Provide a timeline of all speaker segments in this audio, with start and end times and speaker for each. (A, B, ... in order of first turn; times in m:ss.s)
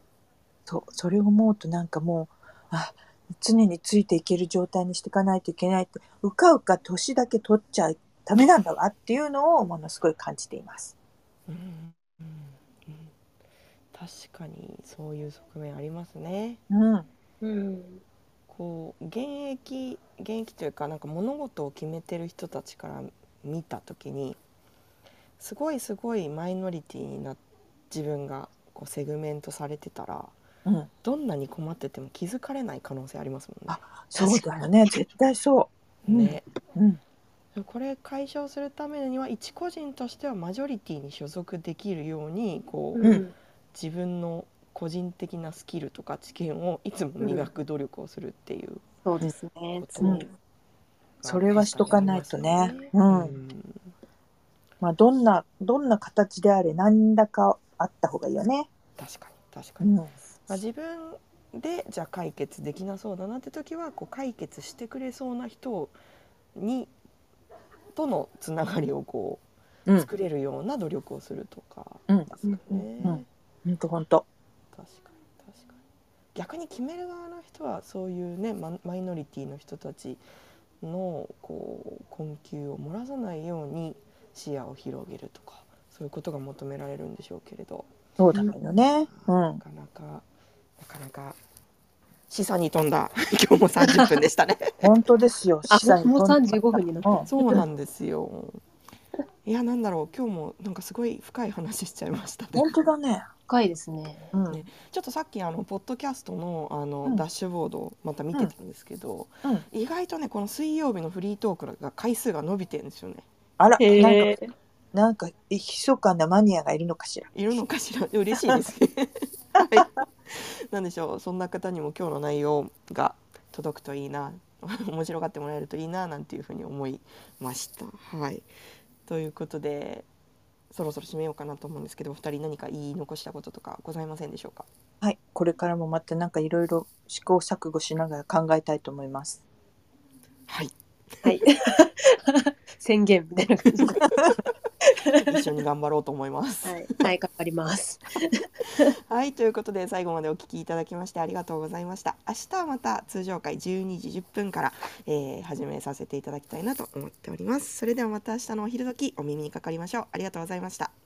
0:00.7-0:10.9 A
0:11.5-0:13.1 B
0:13.9-0:16.6 B
0:16.7-0:17.1 A
0:17.4-0:18.0 C
0:18.5-0:24.4 B
0:25.4-0:27.4 B
0:27.9-0:30.3 B
0:30.6-0:30.9 A
0:31.0-0:34.4 B
0:33.7-0:37.0 A
0:36.0-0:36.4 B
0:37.5-0:43.2 B
0:43.0-0:43.3 C
0:43.7-0:48.8 B
0:49.0-0:50.3 C
0:49.8-0:50.3 B
0:50.0-0:50.3 A
0:51.2-0:53.9 B
0:51.2-0:53.3 A
0:54.8-0:58.7 A
0:59.0-0:59.9 B
0:59.8-1:00.1 A
1:00.5-1:05.9 B
1:06.5-1:06.9 B
1:07.9-1:09.4 B
1:09.9-1:13.3 B
1:13.0-1:14.2 A
1:14.7-1:15.8 B
1:16.3-1:20.2 B
1:20.8-1:27.9 B
1:28.2-1:29.6 A
1:28.8-1:30.2 B
1:30.8-1:31.4 B
1:32.3-1:34.9 B
1:33.8-1:34.1 C
1:34.8-1:37.6 A
1:35.7-1:37.3 C
1:37.3-1:38.6 B
1:39.4-1:42.8 B
1:42.5-1:43.3 A
1:43.5-1:44.3 C
1:44.3-1:44.6 A
1:44.5-1:53.2 B
1:53.6-1:54.4 A
1:53.8-1:54.5 C
1:54.9-1:57.3 A
1:57.3-2:08.5 B
1:58.4-1:58.7 A
1:59.6-1:59.9 A
2:09.1-2:10.1 B
2:10.7-2:14.7 B
2:15.0-2:19.4 A
2:20.5-2:21.3 B
2:21.2-2:24.0 C
2:23.9-2:24.4 B
2:24.8-2:25.3 C
2:25.2-2:27.0 B
2:26.6-2:28.9 C
2:28.8-2:40.9 B